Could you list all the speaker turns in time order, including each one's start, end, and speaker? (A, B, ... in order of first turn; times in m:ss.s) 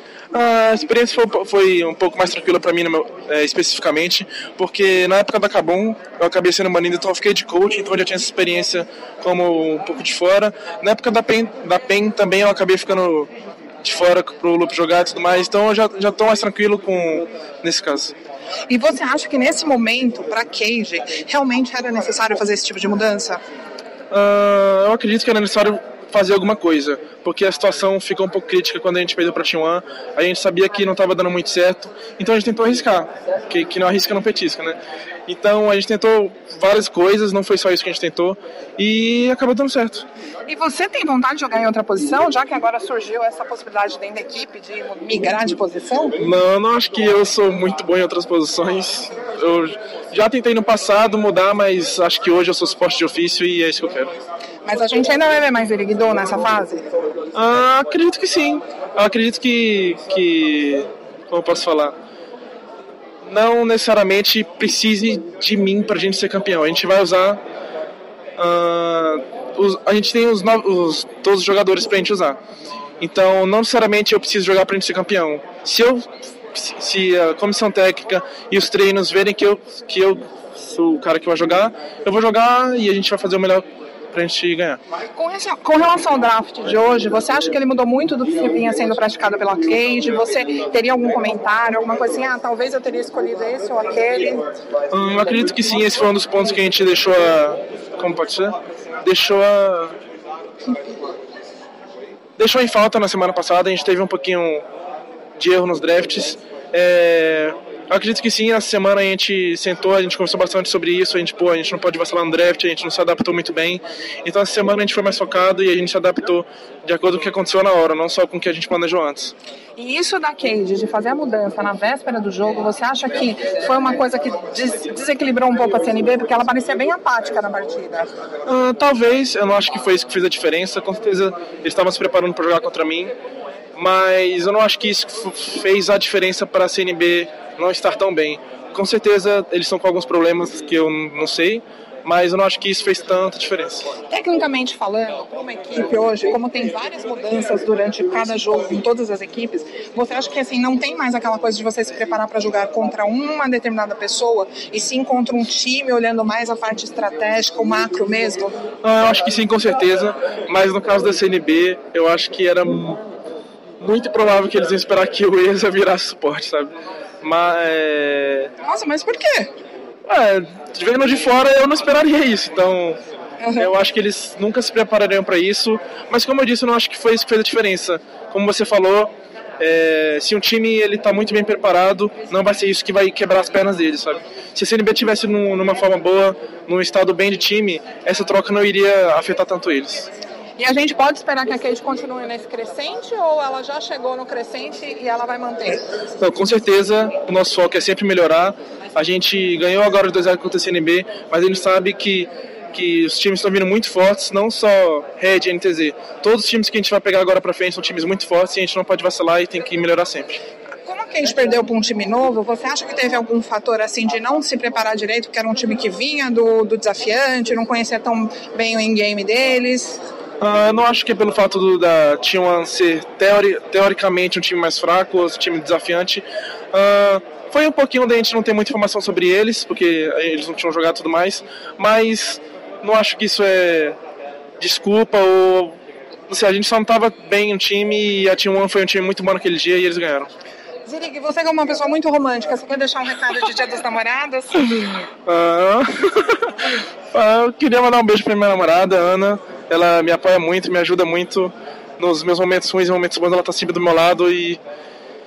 0:00.3-0:13.3 A
0:13.8-0:18.1 A
0:18.7-0:23.4 B
0:24.1-0:40.1 A
0:40.5-0:46.2 B
0:46.2-0:54.1 A
0:54.6-0:56.8 B
0:57.3-1:02.0 A
1:03.3-1:07.4 A
1:08.4-1:12.4 A
1:13.0-1:24.8 A
1:25.2-1:34.5 B
1:34.9-1:40.0 A
1:42.4-1:44.6 A
1:45.4-1:59.3 A
1:59.8-2:08.1 B
2:08.5-2:13.1 A
2:13.8-2:23.9 A
2:24.0-2:38.5 B
2:38.8-2:43.0 A
2:43.8-2:48.5 A
2:48.6-2:49.5 B
2:50.1-2:53.0 A
2:53.4-2:53.7 B
2:53.6-3:10.1 A
3:10.6-3:15.9 B
3:16.2-3:30.4 A
3:30.8-3:40.0 B
3:40.4-3:54.0 A
3:54.6-3:55.8 A
3:56.3-4:00.3 A
4:00.9-4:05.0 B
4:05.3-4:14.6 A